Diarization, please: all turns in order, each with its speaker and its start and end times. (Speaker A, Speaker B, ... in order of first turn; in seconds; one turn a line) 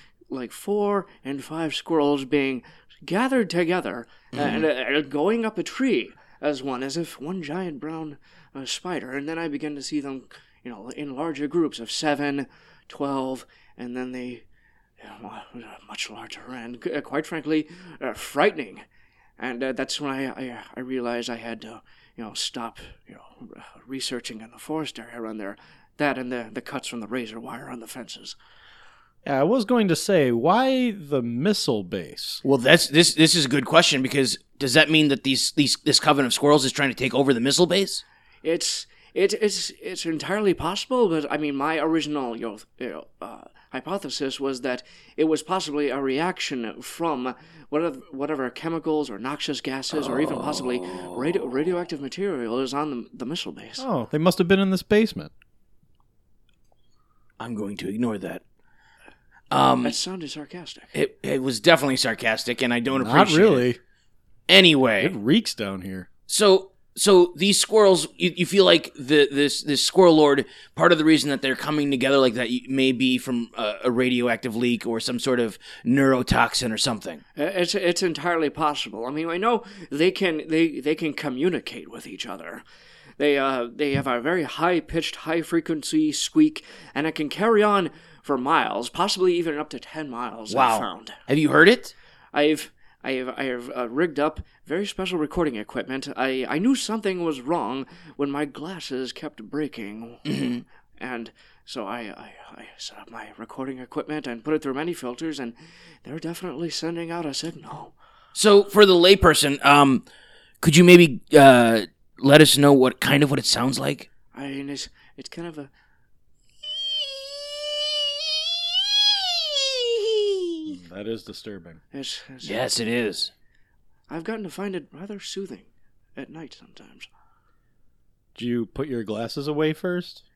Speaker A: 0.3-14.4
Speaker B: 4.3-4.7
Speaker A: 15.0-18.8
Speaker A: 19.4-28.4
Speaker C: 29.2-32.4
Speaker B: 32.4-38.0
Speaker A: 38.4-53.8
Speaker C: 53.8-55.3
Speaker B: 57.4-58.4
Speaker B: 59.5-60.0
Speaker A: 59.8-60.9
Speaker B: 60.9-63.7
Speaker C: 62.9-63.8
Speaker B: 64.5-65.1
Speaker C: 65.0-66.1
Speaker B: 66.3-77.2
Speaker A: 77.3-82.6
Speaker A: 83.2-91.2
Speaker B: 90.5-91.9
Speaker A: 92.3-107.9
Speaker B: 100.2-100.6
Speaker B: 108.3-110.0
Speaker B: 110.6-114.1
Speaker A: 114.3-115.7
Speaker C: 120.6-121.8
Speaker A: 121.9-122.5
Speaker B: 122.4-123.3
Speaker A: 124.1-127.1
Speaker C: 128.3-130.2